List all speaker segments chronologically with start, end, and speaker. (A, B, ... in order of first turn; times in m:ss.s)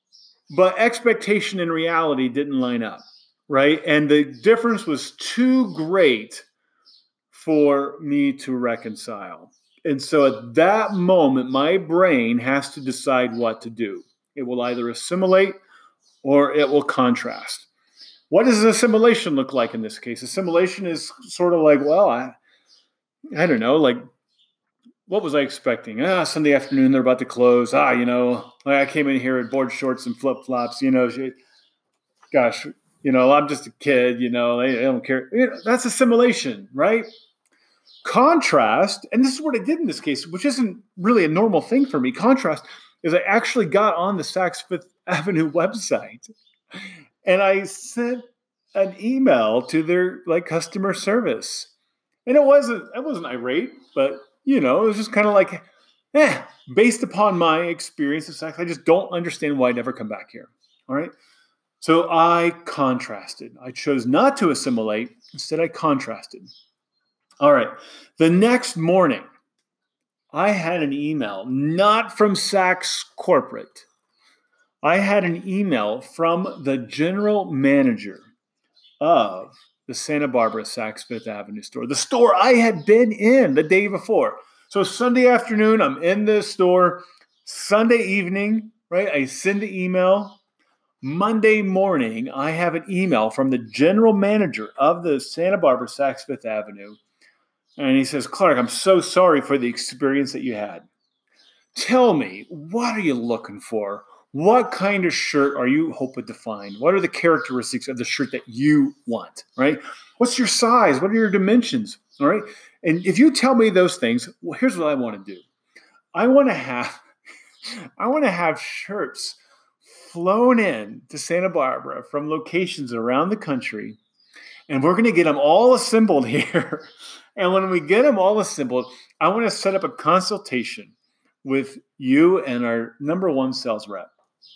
0:00.5-0:06.5 A
0:07.3-0:15.6 A
0:16.2-0:17.7 A
0:18.3-0:22.4 A
0:23.3-0:24.0 A
0:25.1-0:31.4 A
0:32.3-0:37.1 A
0:38.0-0:46.3 A
0:47.2-0:51.7 A
0:52.2-1:01.1 A
1:01.8-1:06.5 A
1:07.4-1:09.2 A
1:10.3-1:13.9 A
1:14.8-1:18.3 A
1:19.0-1:30.4 A
1:31.0-1:37.0 A
1:37.8-1:40.8 A
1:41.7-1:55.4 A
1:56.1-1:57.0 A
1:57.7-2:04.0 A
2:04.7-2:14.1 A